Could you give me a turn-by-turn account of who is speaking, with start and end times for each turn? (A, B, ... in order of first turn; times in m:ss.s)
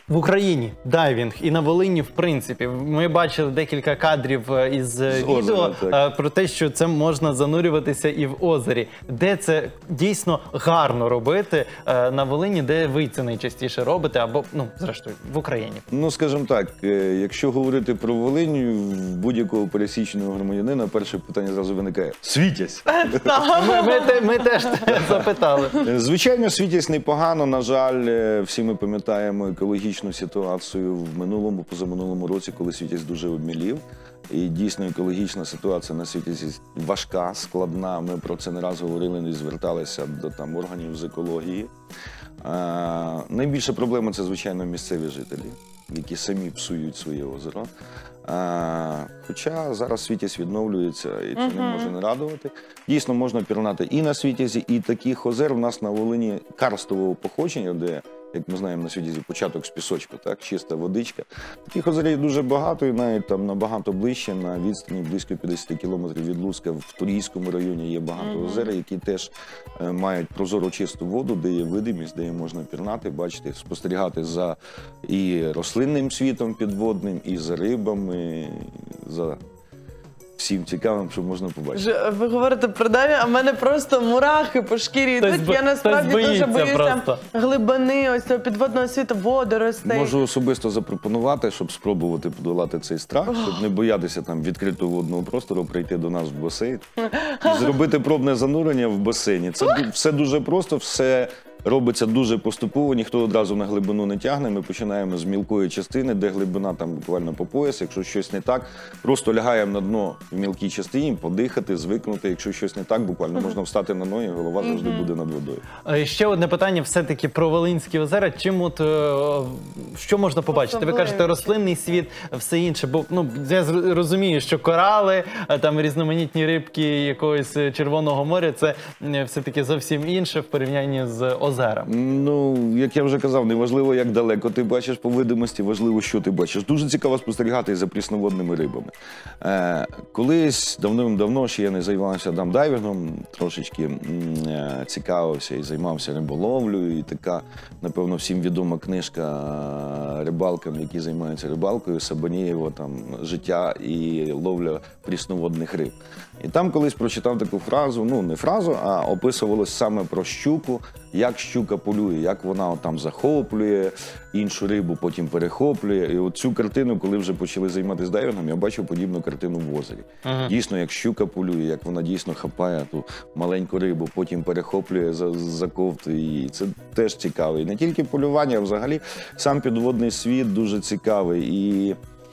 0:00.1-0:15.8 A
0:05.1-0:06.0 B
0:15.9-0:23.2 B
0:22.9-0:24.4 C
0:23.5-0:25.8 A
0:24.8-0:41.7 B
0:42.4-0:47.7 B
0:48.2-1:19.4 B
0:51.4-0:51.9 C
1:08.2-1:08.7 C
1:20.4-1:21.8 B
1:21.7-1:30.2 C
1:25.2-1:27.2 A
1:29.8-1:36.8 B
1:33.3-1:33.6 C
1:37.1-1:37.7 C
1:37.4-1:55.6 B
1:54.6-1:55.1 C
1:55.8-2:11.9 A
2:00.5-2:01.5 C
2:11.8-3:02.0 B
2:50.2-2:50.5 A